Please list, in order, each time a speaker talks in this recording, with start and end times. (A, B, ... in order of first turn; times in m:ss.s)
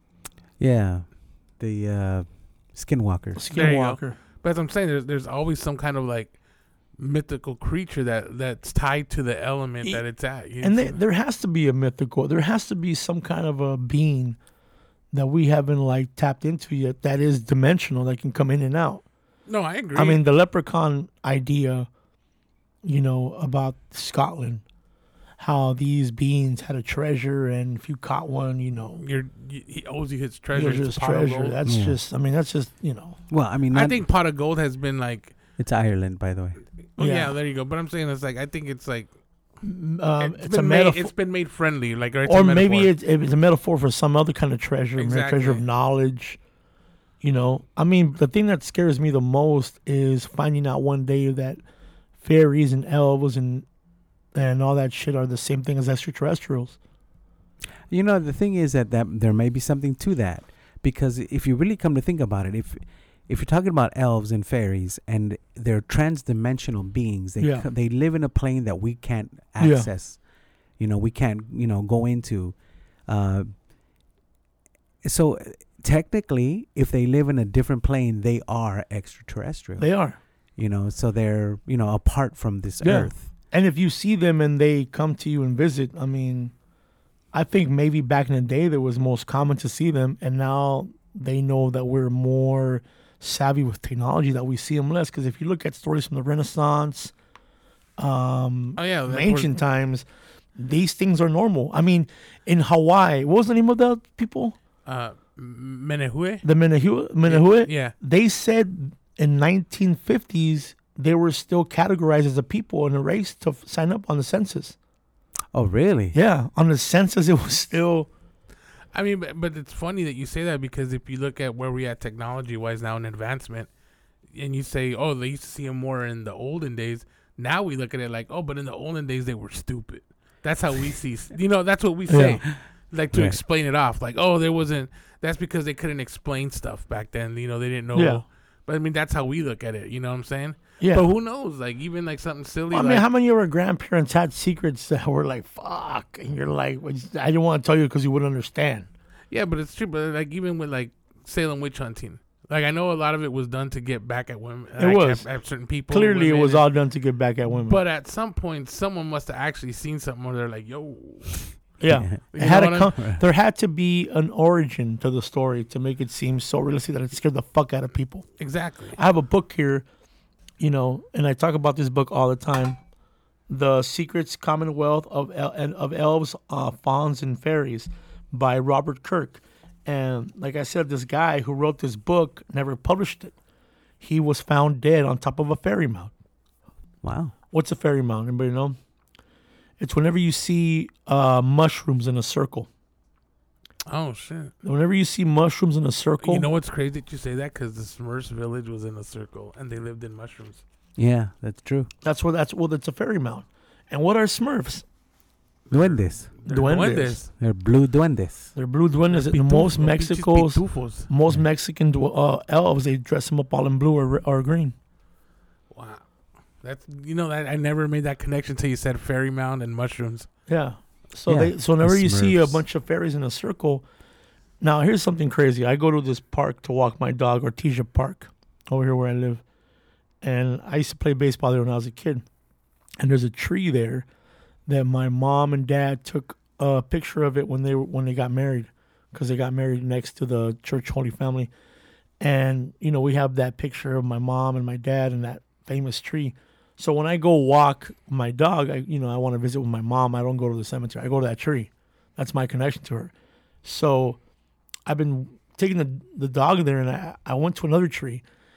0:00.6-0:03.4 A
0:03.4-0:04.2 B
0:03.5-0:06.4 C
0:07.0-0:11.0 C
0:10.6-0:14.4 B
0:15.1-0:19.0 B
0:19.5-0:20.2 C
0:20.0-0:21.9 B
0:22.8-0:24.6 B
0:25.4-0:29.0 B
0:29.0-0:31.6 C
0:30.5-0:33.2 B
0:31.7-0:32.0 A
0:33.3-0:34.0 A
0:33.7-0:35.4 C
0:35.6-0:36.6 A
0:37.0-0:39.1 C
0:37.0-0:37.4 B
0:39.6-0:41.1 B
0:40.2-0:42.9 C
0:42.3-0:46.4 B
0:45.0-0:45.6 C
0:47.2-0:51.6 B
0:52.2-0:53.6 B
0:54.3-0:56.8 B
0:57.9-1:10.2 A
1:07.4-1:07.7 B
1:09.6-1:09.9 B
1:10.8-1:12.6 A
1:13.1-1:13.5 A
1:15.0-1:19.9 A
1:19.8-1:20.2 B
1:20.6-1:23.3 A
1:22.8-1:26.5 B
1:27.3-1:37.1 B
1:38.0-1:40.1 B
1:38.8-1:39.5 C
1:40.6-1:44.6 B
1:44.9-1:46.4 C
1:46.4-1:54.8 B
1:47.3-1:47.9 C
1:55.5-1:56.2 A
1:56.1-1:58.1 B
1:58.9-2:03.7 C
2:04.3-2:23.1 C
2:12.1-2:12.4 B
2:13.1-2:13.4 A
2:17.9-2:18.2 B
2:20.8-2:21.1 B
2:22.7-2:28.9 B
2:29.3-2:36.7 C
2:34.8-2:35.3 B
2:35.9-2:37.8 B
2:37.7-2:41.7 C
2:41.8-2:48.3 B
2:41.9-2:42.2 A
2:42.3-2:42.9 C
2:43.0-2:43.2 A
2:48.4-2:49.0 C
2:49.0-2:49.8 B
2:50.6-2:52.8 B
2:53.5-3:03.3 B
3:04.0-3:06.1 B
3:07.0-3:07.3 A
3:07.5-3:08.8 B
3:09.8-3:12.7 B
3:13.9-3:14.5 C
3:14.6-3:16.5 B
3:16.2-3:20.6 C
3:21.0-3:21.9 A
3:22.0-3:24.8 B
3:25.7-3:26.3 A
3:25.7-3:27.3 C
3:26.4-3:27.2 B
3:27.4-3:28.5 A
3:28.6-3:34.7 B
3:29.1-3:31.1 C
3:35.7-3:36.0 C
3:36.6-3:40.3 C
3:40.5-3:43.8 B
3:41.3-3:42.6 A
3:44.6-3:49.4 B
3:50.2-3:52.2 B
3:53.0-3:54.1 B
3:54.7-4:01.5 B
4:02.2-4:13.1 B
4:13.6-4:14.2 B
4:14.9-4:18.2 B